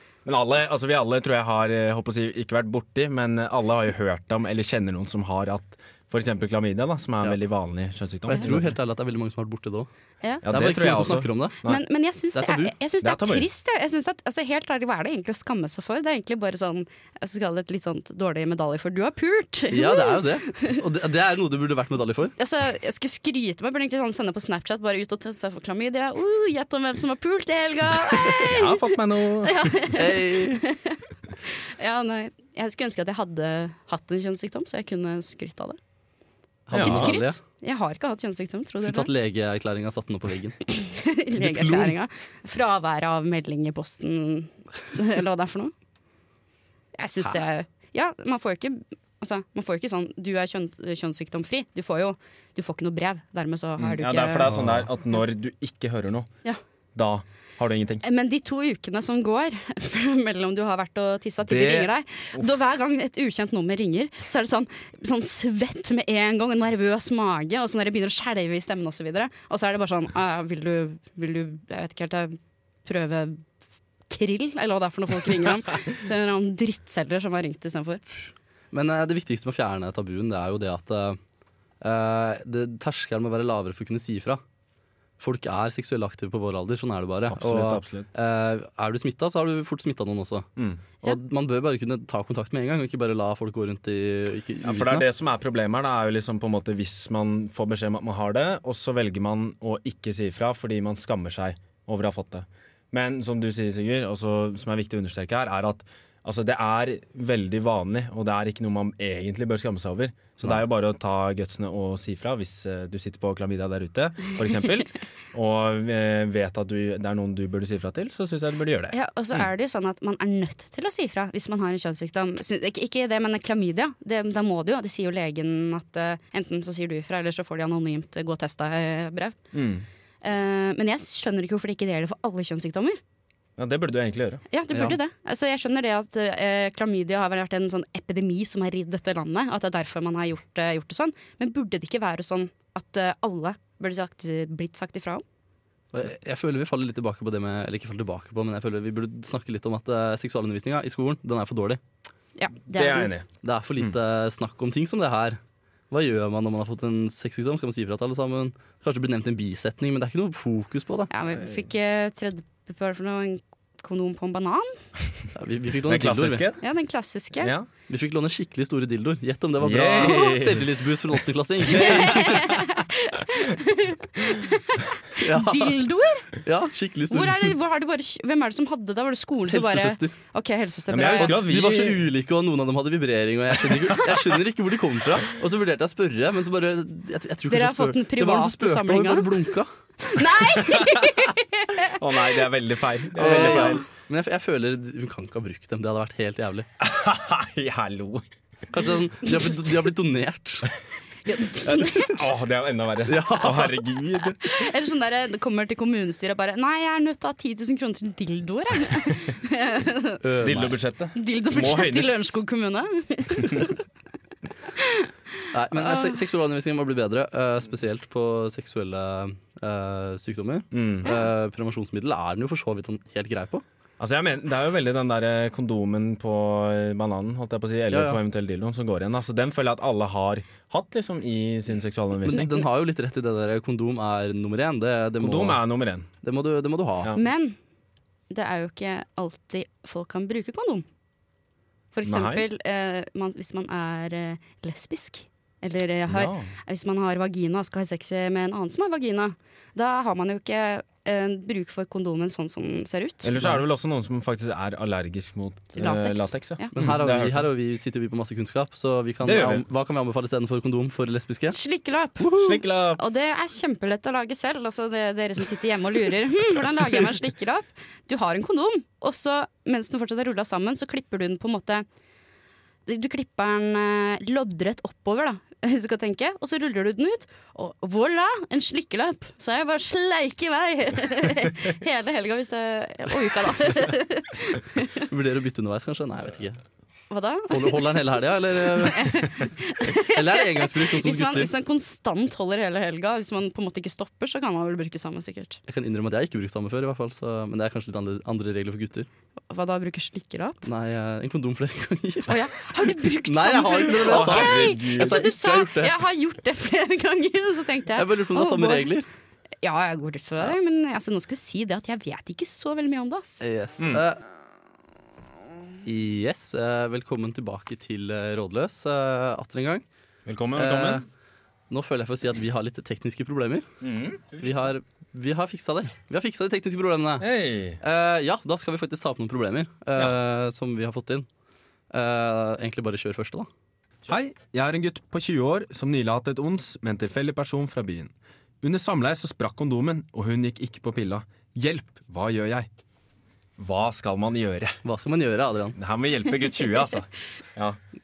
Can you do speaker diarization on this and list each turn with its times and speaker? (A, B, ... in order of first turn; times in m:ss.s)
0:00.2-0:08.8 A
0:08.3-0:09.9 B
0:10.4-0:11.8 A
0:10.5-0:11.6 B
0:11.6-0:20.8 C
0:12.3-0:12.7 B
0:13.0-0:13.5 A
0:19.7-0:22.3 B
0:22.4-0:35.8 C
0:28.3-0:29.8 A
0:29.9-0:30.6 B
0:36.7-0:37.4 B
0:36.7-0:37.1 A
0:36.7-0:39.1 C
0:38.8-0:40.6 B
0:40.7-0:45.7 C
0:41.4-0:41.9 B
0:47.0-0:54.5 C
0:53.8-0:56.3 A
0:54.4-0:54.9 B
0:56.9-0:58.0 A
0:58.0-1:13.4 C
1:01.4-1:02.5 A
1:14.1-1:18.0 C
1:18.7-1:21.2 B
1:21.8-1:24.4 B
1:25.2-1:30.5 B
1:27.3-1:28.1 A
1:30.6-1:30.8 A
1:31.0-1:35.1 B
1:34.6-1:59.4 A
1:58.9-2:09.4 C
2:09.5-2:09.8 A
2:10.2-2:13.0 C
2:13.6-2:14.4 A
2:14.5-2:25.2 C
2:25.9-2:31.8 B
2:32.4-2:33.1 C
2:32.7-2:33.3 A
2:33.4-2:35.4 B
2:35.9-2:41.1 B
2:41.1-2:44.8 C
2:45.3-2:46.4 B
2:45.9-2:46.6 A
2:46.6-2:47.5 C
2:47.4-2:47.7 A
2:47.9-2:52.4 B
2:49.6-2:50.7 A
2:50.0-2:50.4 C
2:51.6-2:52.6 A
2:51.7-2:56.3 C
2:55.2-2:55.8 B
2:56.4-2:57.5 B
2:57.1-3:01.4 C
2:59.5-3:00.1 B
3:00.9-3:02.0 A
3:01.2-3:09.7 B
3:07.5-3:09.3 C
3:10.0-3:12.2 C
3:10.6-3:11.1 A
3:11.9-3:13.8 A
3:13.2-3:16.7 B
3:13.2-3:13.8 C
3:16.8-3:18.2 A
3:18.7-3:20.7 B
3:21.2-3:22.2 C
3:21.6-3:24.5 A
3:23.0-3:23.8 B
3:24.2-3:30.2 C
3:30.2-3:30.7 B
3:30.4-3:32.4 A
3:31.1-3:33.8 C
3:33.4-3:33.7 A
3:34.8-3:35.1 C
3:35.5-3:43.6 B
3:35.8-3:36.2 C
3:40.7-3:41.1 A
3:44.0-3:52.5 A
3:47.9-3:48.2 B
3:52.2-3:55.6 B
3:55.2-3:56.1 A
3:56.2-3:57.1 B
3:57.2-3:57.6 C
3:58.3-4:00.8 C
4:01.9-4:13.6 C
4:02.0-4:02.4 A
4:06.1-4:06.5 A
4:13.2-4:17.5 A
4:15.7-4:16.7 C
4:16.7-4:21.6 B
4:19.2-4:19.6 A
4:21.5-4:31.8 C
4:22.4-4:23.0 A
4:32.8-4:45.0 C
4:45.0-4:46.6 B
4:47.1-4:55.6 C
4:47.5-4:49.3 B
4:49.8-4:51.5 B
4:55.7-4:59.1 B
4:59.5-5:00.6 C
5:00.6-5:02.5 B
5:02.3-5:08.9 C
5:03.2-5:06.0 B
5:04.0-5:05.3 A
5:08.0-5:09.1 B
5:09.6-5:13.4 C
5:13.4-5:14.2 B
5:13.8-5:14.0 A
5:15.8-5:19.8 B
5:20.2-5:21.0 A
5:20.6-5:21.0 B
5:21.7-5:23.6 B
5:23.8-5:24.6 A
5:24.4-5:27.2 B
5:27.2-5:27.8 A
5:27.8-5:31.3 B
5:31.9-5:33.5 B
5:34.1-5:42.7 A
5:43.6-5:44.8 A
5:44.8-5:45.8 B
5:45.8-5:47.8 A